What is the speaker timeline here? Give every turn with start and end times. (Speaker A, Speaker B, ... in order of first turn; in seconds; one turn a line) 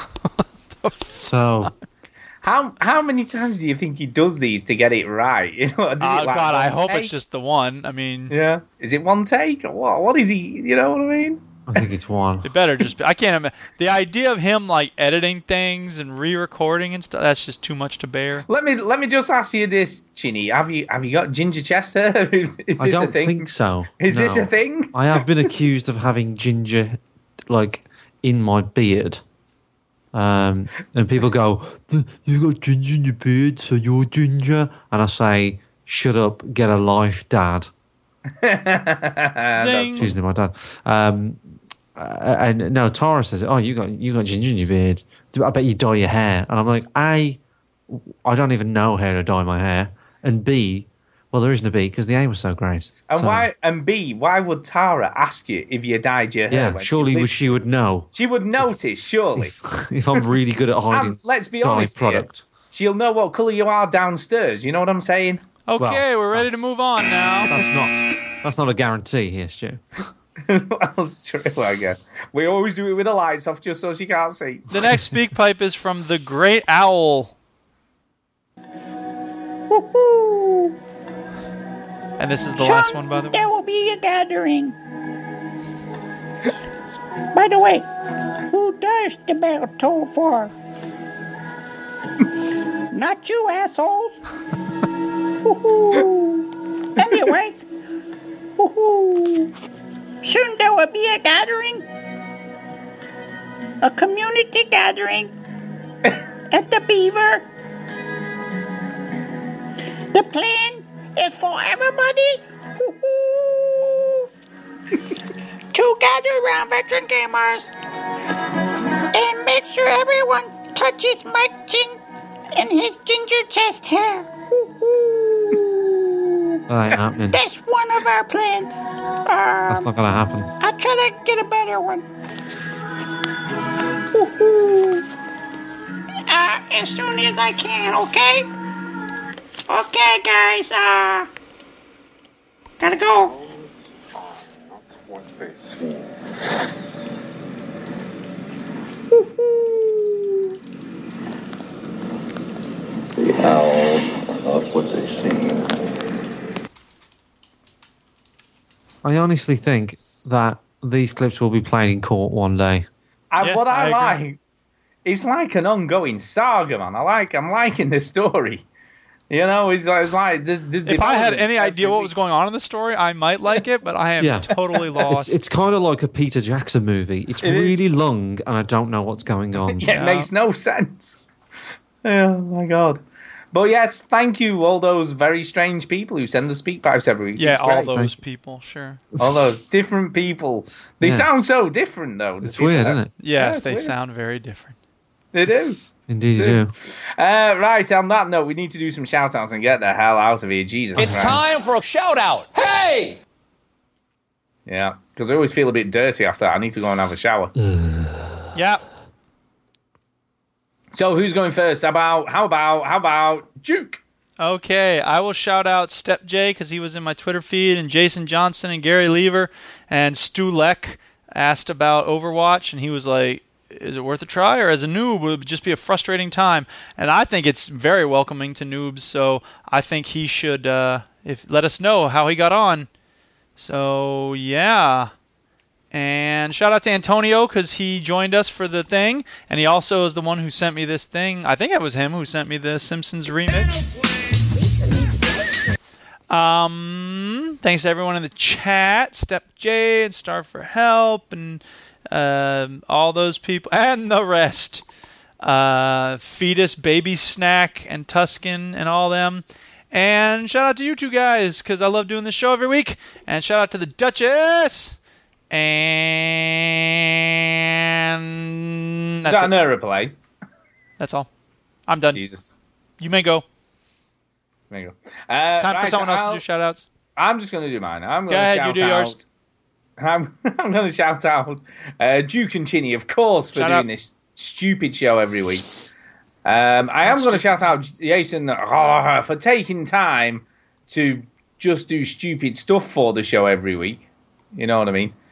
Speaker A: 0.7-1.2
Speaker B: 1.2-1.7
Speaker C: 2.4-7.1
Speaker A: 6.0-8.3
Speaker C: 8.3-11.4
Speaker B: 11.7-12.5
Speaker A: 12.4-18.5
Speaker C: 18.5-25.2
Speaker B: 22.8-29.2
Speaker B: 30.1-37.7
Speaker C: 38.4-40.1
Speaker A: 39.5-40.1
Speaker B: 40.0-41.4
Speaker B: 42.0-47.4
Speaker B: 47.9-53.5
Speaker C: 53.1-57.6
Speaker B: 56.5-58.1
Speaker C: 58.1-59.5
Speaker B: 59.4-62.4
Speaker C: 60.9-65.4
Speaker A: 65.7-67.6
Speaker B: 65.8-66.6
Speaker B: 67.5-69.8
Speaker C: 70.5-74.7
Speaker A: 74.7-77.3
Speaker D: 79.7-80.7
Speaker A: 82.2-83.4
Speaker D: 82.6-84.8
Speaker D: 87.3-87.9
Speaker D: 88.5-90.5
Speaker D: 92.9-94.2
Speaker D: 95.4-97.6
Speaker D: 98.6-99.5
Speaker D: 100.2-101.9
Speaker D: 103.8-105.3
Speaker D: 106.5-107.5
Speaker D: 110.1-114.2
Speaker D: 115.7-117.7
Speaker D: 119.1-122.0
Speaker D: 122.5-126.5
Speaker B: 126.7-127.4
Speaker D: 127.3-129.9
Speaker B: 129.7-130.5
Speaker D: 130.6-132.1
Speaker D: 134.1-135.1
Speaker D: 136.3-138.5
Speaker D: 139.7-141.3
Speaker D: 142.8-143.3
Speaker E: 145.1-146.2
Speaker D: 149.1-150.3
Speaker E: 153.2-155.8
Speaker B: 159.0-162.9
Speaker C: 163.3-164.4
Speaker A: 163.4-164.2
Speaker C: 165.1-168.6
Speaker C: 169.3-172.1
Speaker A: 170.9-175.4
Speaker B: 174.2-174.5
Speaker B: 175.0-179.8
Speaker C: 177.4-177.8
Speaker C: 179.7-181.2
Speaker A: 179.9-180.3
Speaker C: 182.0-183.0
Speaker C: 183.5-188.0
Speaker A: 187.4-189.0
Speaker C: 189.2-193.9
Speaker B: 191.0-191.3
Speaker B: 192.4-193.1
Speaker A: 193.2-194.8
Speaker C: 195.3-195.8
Speaker B: 196.1-196.7
Speaker C: 196.4-201.4
Speaker B: 201.0-201.4
Speaker F: 201.0-203.2
Speaker C: 204.7-207.5
Speaker B: 207.6-208.5
Speaker A: 208.6-208.8
Speaker C: 210.9-214.0
Speaker A: 214.4-232.9
Speaker A: 233.6-235.1
Speaker A: 235.9-243.8
Speaker A: 246.3-254.8
Speaker A: 255.4-265.0
Speaker A: 265.5-269.5
Speaker C: 269.3-270.1
Speaker A: 271.0-271.3
Speaker A: 271.9-272.2
Speaker C: 272.1-272.5
Speaker A: 273.0-273.4
Speaker C: 274.7-276.4
Speaker A: 275.6-276.9
Speaker C: 277.2-279.2
Speaker A: 278.3-279.1
Speaker C: 280.0-285.7
Speaker A: 283.6-283.9
Speaker C: 286.4-294.0
Speaker A: 287.0-287.5
Speaker C: 294.6-295.1